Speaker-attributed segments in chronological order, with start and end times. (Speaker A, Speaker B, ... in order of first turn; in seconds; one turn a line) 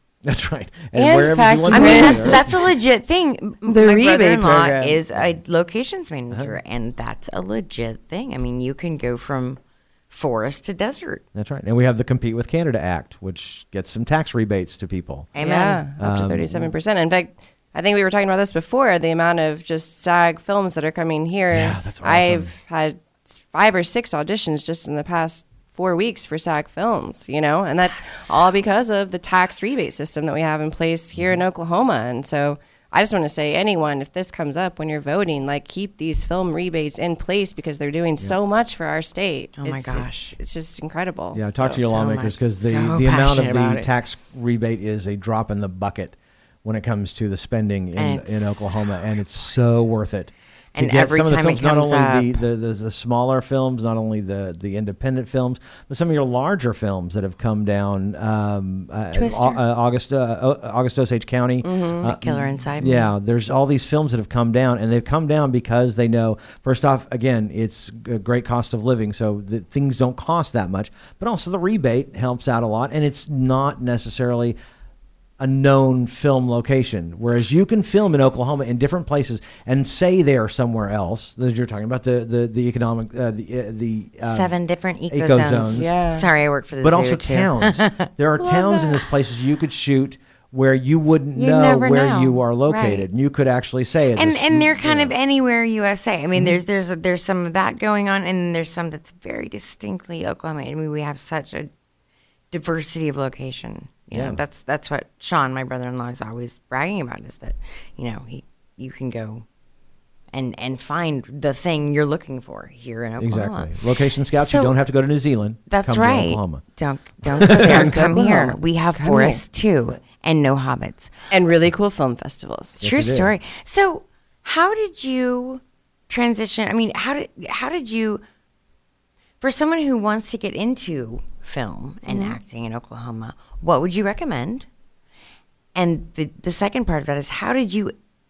Speaker A: 0.2-2.5
Speaker B: 0.9-2.5
Speaker C: 1.7-11.2
Speaker B: 3.6-5.0
Speaker A: 6.3-6.5
Speaker A: 11.3-15.3
Speaker C: 15.3-15.8
Speaker B: 15.4-41.8
Speaker A: 16.0-16.7
Speaker A: 21.5-22.5
Speaker C: 28.1-28.4
Speaker C: 39.6-40.3
Speaker A: 41.3-74.5
Speaker C: 41.6-43.9
Speaker C: 47.9-48.9
Speaker C: 50.7-52.4
Speaker C: 59.1-59.6
Speaker B: 61.6-62.1
Speaker C: 62.1-63.1
Speaker A: 75.4-84.5
Speaker C: 84.2-89.1
Speaker A: 85.1-85.9
Speaker B: 85.7-86.3
Speaker A: 86.8-95.1
Speaker C: 91.3-93.1
Speaker C: 94.1-101.7
Speaker C: 102.5-109.4
Speaker A: 104.1-104.4
Speaker C: 110.3-113.7
Speaker A: 113.2-116.6
Speaker C: 114.4-114.7
Speaker C: 115.7-121.1
Speaker A: 117.2-117.8
Speaker B: 117.5-119.4
Speaker B: 121.3-122.8
Speaker A: 122.8-123.3
Speaker C: 122.8-128.2
Speaker C: 129.4-134.7
Speaker B: 132.1-132.4
Speaker C: 135.7-137.9